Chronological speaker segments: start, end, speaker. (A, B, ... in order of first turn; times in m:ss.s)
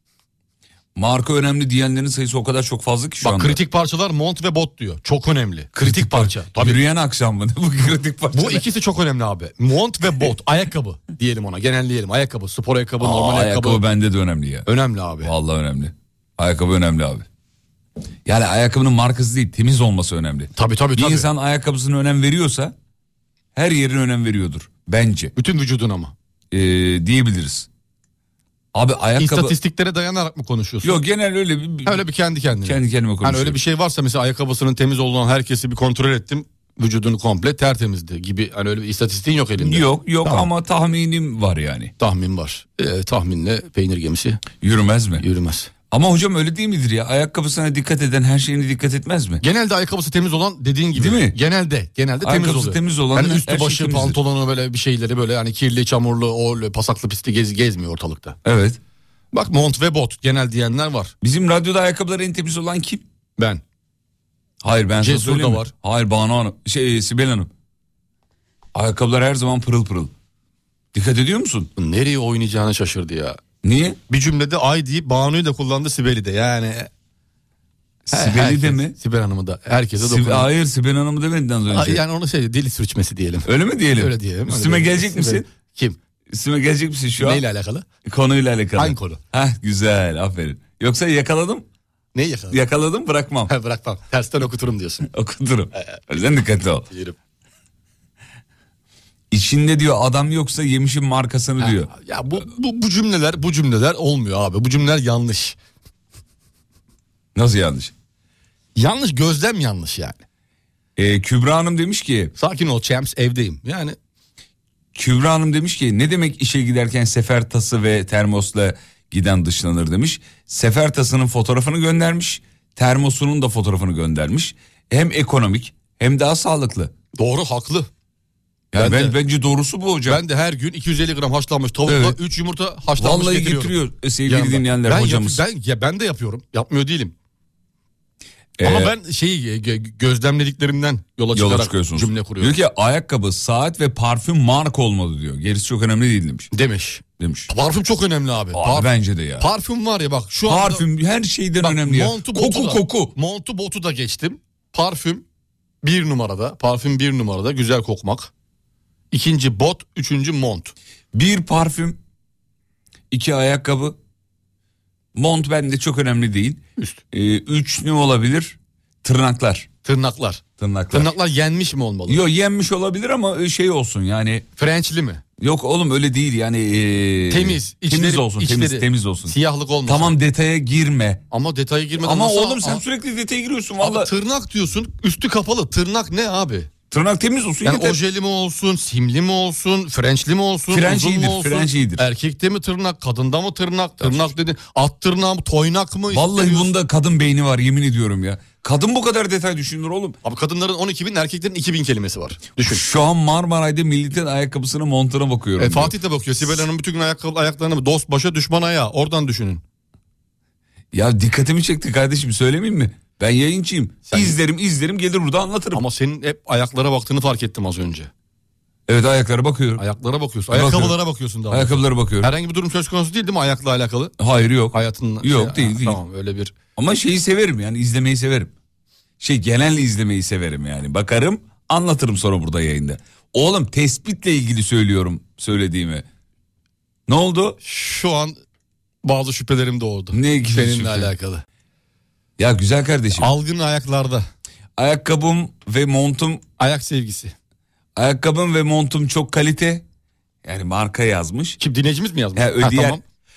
0:01.0-0:03.6 A
0:03.2-0:06.8 B
0:05.8-0:08.6 A
0:08.3-0:13.8 B
0:13.0-0:14.7 A
0:14.7-0:15.3 B
0:15.2-0:17.3 A
0:18.2-0:22.7 A
0:20.6-0:21.3 B
0:23.6-0:25.3 A
0:25.4-0:26.1 B
0:26.5-0:27.7 A
0:28.7-0:29.6 A
0:29.2-0:31.0 B
0:30.8-0:32.0 A
0:31.8-0:40.5 B
0:32.6-0:33.6 A
0:39.6-0:41.9 A
0:42.0-0:44.4 B
0:44.6-0:45.2 A
0:45.2-0:45.7 B
0:45.9-0:49.4 A
0:49.4-0:58.4 B
0:51.0-0:51.4 A
0:52.2-0:54.2 A
0:58.4-0:58.8 A
0:59.3-1:01.1 B
1:01.2-1:03.0 A
1:04.6-1:07.5 A
1:05.0-1:05.7 B
1:08.7-1:10.1 A
1:10.9-1:11.7 A
1:11.8-1:13.4 B
1:13.6-1:14.0 A
1:14.1-1:16.9 B
1:18.1-1:19.0 A
1:18.1-1:20.5 B
1:20.0-1:22.0 A
1:21.7-1:26.0 B
1:23.5-1:25.4 A
1:26.3-1:27.4 A
1:27.2-1:27.9 B
1:28.0-1:31.7 A
1:28.8-1:29.2 B
1:32.2-1:32.6 B
1:32.5-1:33.5 A
1:33.5-1:35.1 B
1:35.1-1:36.9 A
1:36.9-1:37.2 B
1:39.3-1:41.9 A
1:41.6-1:45.6 B
1:47.4-1:47.9 A
1:48.8-1:50.2 B
1:51.0-1:52.3 A
1:52.4-1:54.0 B
1:55.0-2:06.9 A
2:07.2-2:07.9 B
2:08.7-2:10.2 A
2:08.8-2:09.2 B
2:10.1-2:17.1 B
2:11.9-2:12.2 A
2:13.0-2:15.4 A
2:18.6-2:18.9 A
2:18.6-2:22.6 B
2:21.3-2:26.5 A
2:26.5-2:30.9 B
2:27.2-2:27.5 A
2:28.5-2:29.5 A
2:30.5-2:33.1 A
2:31.6-2:35.2 B
2:35.8-2:38.3 B
2:39.1-2:40.7 B
2:41.1-2:42.0 A
2:43.1-2:44.0 A
2:45.2-2:49.7 A
2:49.8-2:52.2 B
2:50.6-2:51.1 A
2:52.1-2:54.4 A
2:54.6-2:55.2 B
2:55.4-2:59.4 A
2:57.3-3:00.2 B
2:59.9-3:01.2 A
3:01.3-3:02.8 B
3:02.0-3:04.1 A
3:03.8-3:06.7 B
3:06.9-3:08.0 A
3:07.6-3:16.7 B
3:10.7-3:12.1 A
3:16.1-3:20.2 A
3:20.2-3:22.8 B
3:22.6-3:26.0 A
3:25.6-3:29.6 B
3:30.9-3:35.8 A
3:34.1-3:34.4 B
3:35.7-3:38.1 B
3:38.9-3:39.8 A
3:39.8-3:44.1 B
3:40.5-3:41.0 A
3:41.5-3:42.3 A
3:44.2-3:46.0 A
3:44.7-3:46.6 B
3:46.8-3:48.5 A
3:49.2-3:56.1 A
3:57.1-3:57.6 A
3:57.6-3:58.4 B
3:59.0-4:01.4 B
4:00.1-4:01.1 A
4:02.4-4:03.3 A
4:03.2-4:04.2 B
4:04.8-4:06.4 A
4:06.6-4:07.3 B
4:08.0-4:09.8 A
4:10.4-4:11.6 A
4:11.6-4:13.0 B
4:12.4-4:13.0 A